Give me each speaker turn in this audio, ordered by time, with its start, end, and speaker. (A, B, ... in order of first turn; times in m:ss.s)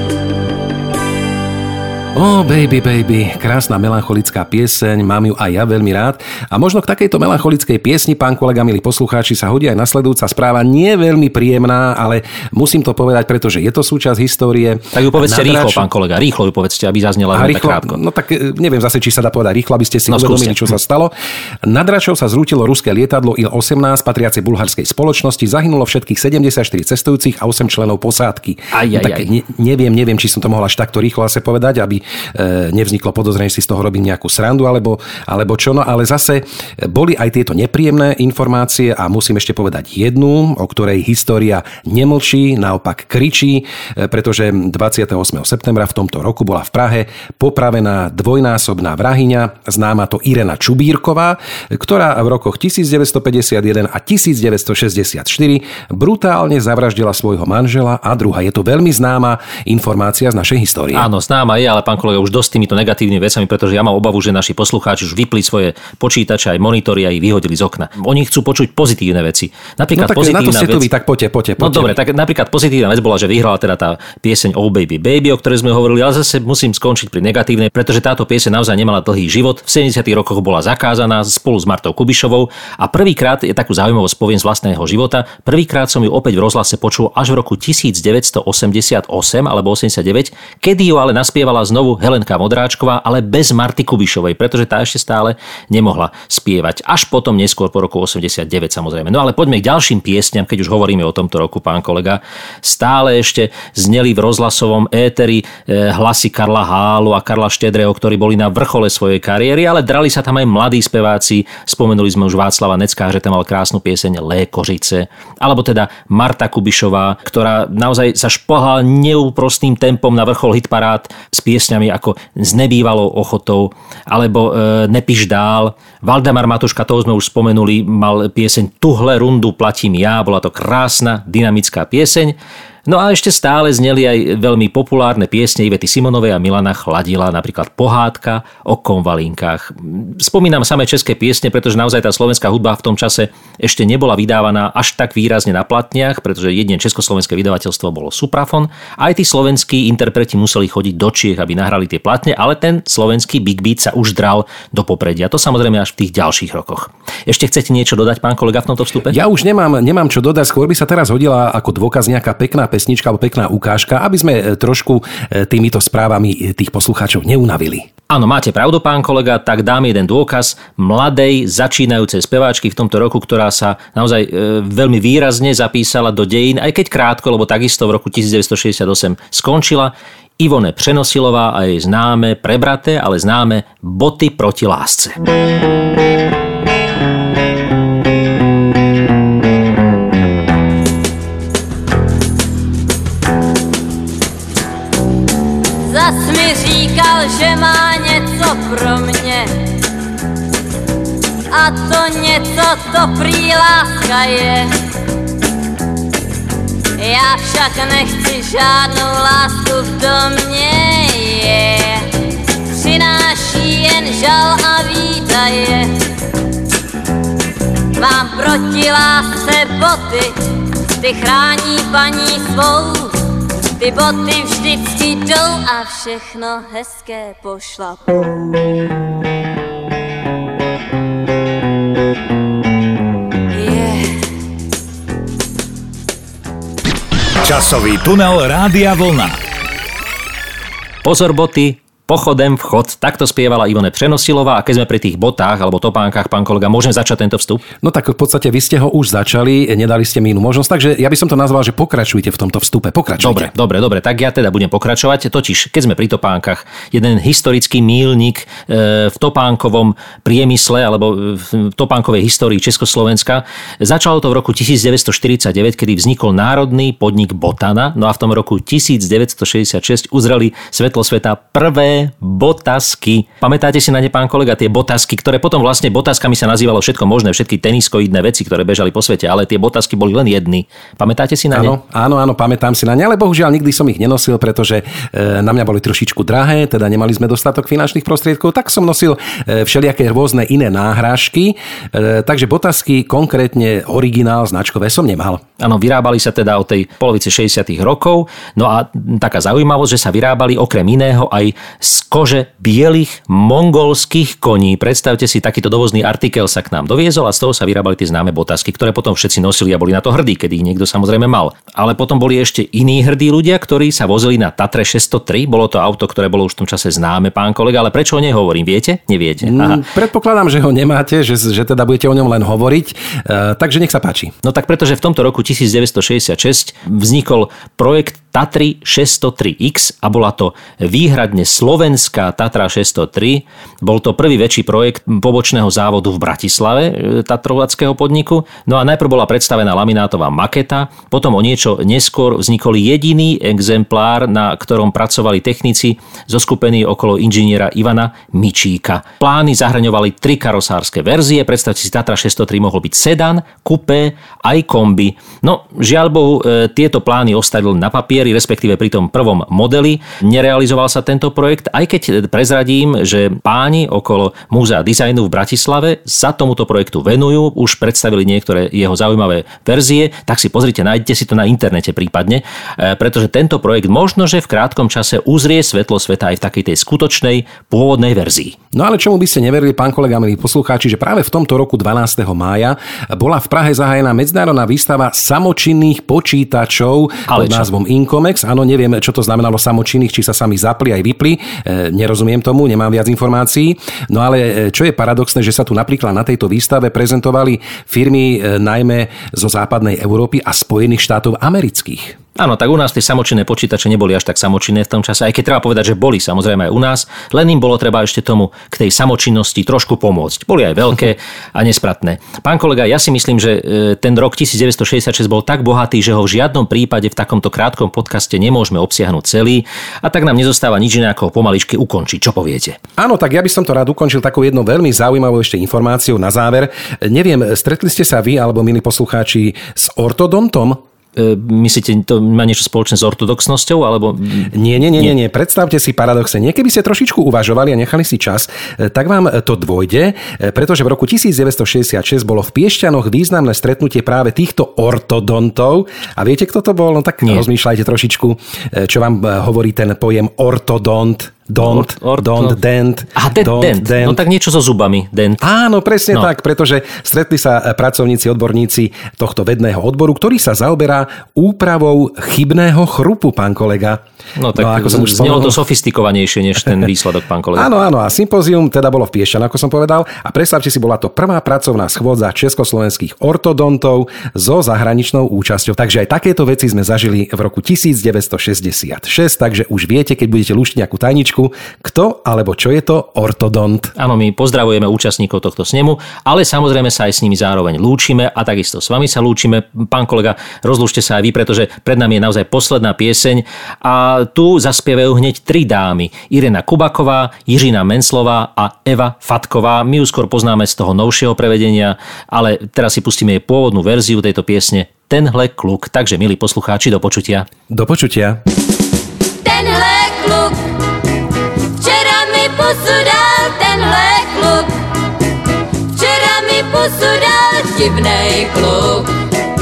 0:02.1-0:15.8 A
0:14.9-0:18.0 B
0:17.3-1:01.1 A
0:20.1-0:20.6 B
0:28.7-0:29.3 B
1:00.9-1:10.9 B
1:09.9-1:11.9 A
1:11.6-2:12.4 B
2:12.9-2:39.2 B
2:39.1-2:47.9 A
2:48.1-3:05.2 B
3:15.8-3:19.5 C
3:21.5-3:24.7 C
3:27.0-3:32.1 C
3:32.7-3:35.9 C
3:38.0-3:40.4 C
3:41.0-3:43.2 C
3:43.8-3:48.7 C
3:53.5-3:54.3 C
3:57.4-3:59.4 D
4:01.0-4:07.6 B
4:07.8-4:13.5 A
4:13.2-4:41.7 B
4:41.5-4:55.4 A
4:55.6-5:19.8 B
5:19.4-5:24.3 A
5:24.4-6:18.6 B
6:18.7-6:42.2 A
6:27.3-6:27.7 B
6:42.4-7:02.8 B
7:03.0-7:10.8 A
7:11.2-7:15.1 B
7:14.5-7:34.2 A
7:31.6-7:32.6 B
7:33.2-7:35.4 B
7:35.4-7:44.0 A
7:44.4-7:47.7 B
7:44.5-7:45.6 A
7:47.6-8:03.9 A
8:04.0-8:27.5 B
8:27.7-8:28.4 A
8:29.4-8:30.6 C
8:31.8-8:34.7 C
8:35.9-8:39.1 C